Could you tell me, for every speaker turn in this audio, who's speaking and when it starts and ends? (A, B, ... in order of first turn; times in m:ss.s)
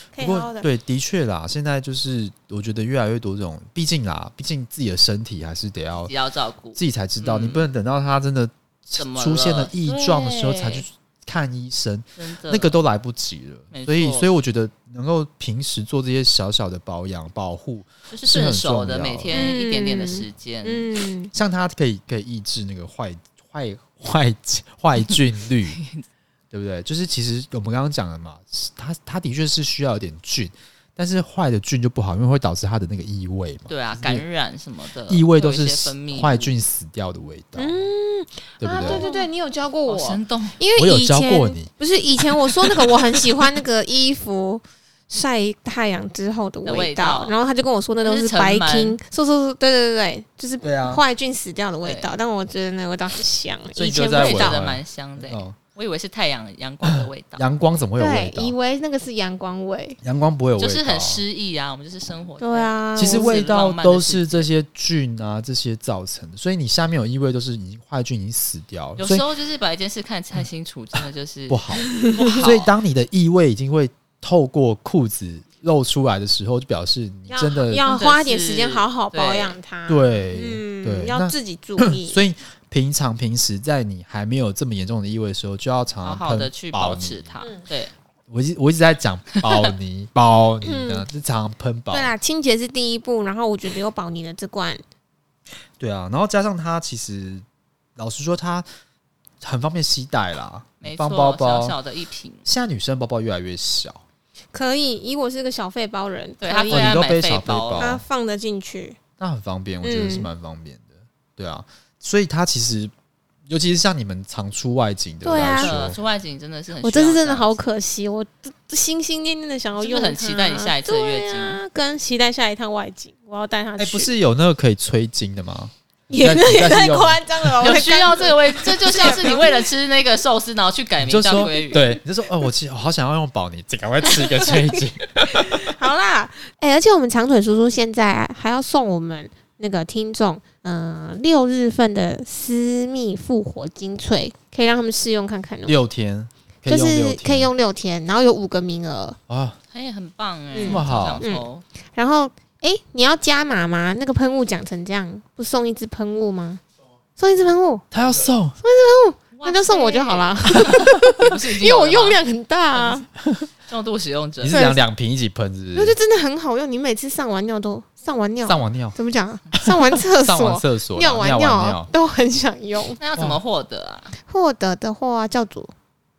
0:00.1-0:00.7 A
0:00.2-0:06.1 B
0:06.1-0:07.7 C
0:06.8-0:19.4 B
0:09.0-0:10.8 C
0:12.2-0:12.8 C
0:13.7-0:14.3 C
0:18.1-0:20.9 C
0:19.3-0:21.3 A
0:21.3-0:25.8 B
0:25.8-0:26.0 C
0:26.5-0:34.2 B
0:33.7-0:36.6 C
0:35.1-0:37.9 B
0:37.6-0:54.6 A
0:38.6-0:39.0 B
0:38.7-0:39.3 C
0:39.9-0:40.6 C
0:40.8-0:41.7 B
0:42.2-0:43.2 B
0:46.6-0:47.4 C
0:48.0-0:49.0 C
0:50.6-0:51.0 B
0:51.8-0:52.1 C
0:53.8-0:55.6 B
0:53.8-0:57.5 C
0:56.8-0:58.6 B
0:58.0-1:00.0 A
1:00.0-1:01.2 B
1:00.6-1:04.5 C
1:02.4-1:03.5 A
1:03.0-1:09.3 B
1:09.0-1:12.7 C
1:11.5-1:17.8 B
1:11.9-1:12.5 A
1:17.3-1:22.2 A
1:17.9-1:19.6 C
1:19.9-1:27.4 B
1:26.0-1:27.9 C
1:28.3-1:32.1 B
1:30.6-1:31.0 A
1:31.9-1:34.8 A
1:35.8-1:37.4 B
1:38.0-1:38.7 B
1:39.4-1:41.8 B
1:40.8-1:42.5 C
1:42.5-1:44.0 B
1:44.5-1:47.0 A
1:46.4-1:48.0 C
1:46.7-1:48.0 B
1:47.8-1:49.0 A
1:49.2-1:52.9 B
1:49.8-1:50.3 A
1:53.5-1:56.0 B
1:55.2-1:55.8 A
1:55.4-1:57.7 C
1:56.8-2:04.1 A
1:59.8-2:01.6 C
2:03.8-2:07.2 B
2:06.1-2:09.7 A
2:07.6-2:12.0 C
2:11.0-2:15.8 B
2:15.4-2:25.8 A
2:25.7-2:27.5 B
2:26.7-2:29.2 A
2:29.3-2:29.6 B
2:29.7-2:31.6 C
2:30.5-2:36.6 A
2:30.6-2:31.2 B
2:37.2-2:37.9 A
2:37.9-2:38.6 B
2:38.6-2:43.1 A
2:39.4-2:42.2 C
2:42.7-2:43.0 C
2:43.7-2:44.6 C
2:44.4-2:46.0 B
2:44.5-2:44.8 A
2:45.7-2:53.0 A
2:48.4-2:49.0 B
2:49.5-2:51.9 B
2:53.0-2:54.2 C
2:54.2-2:55.7 A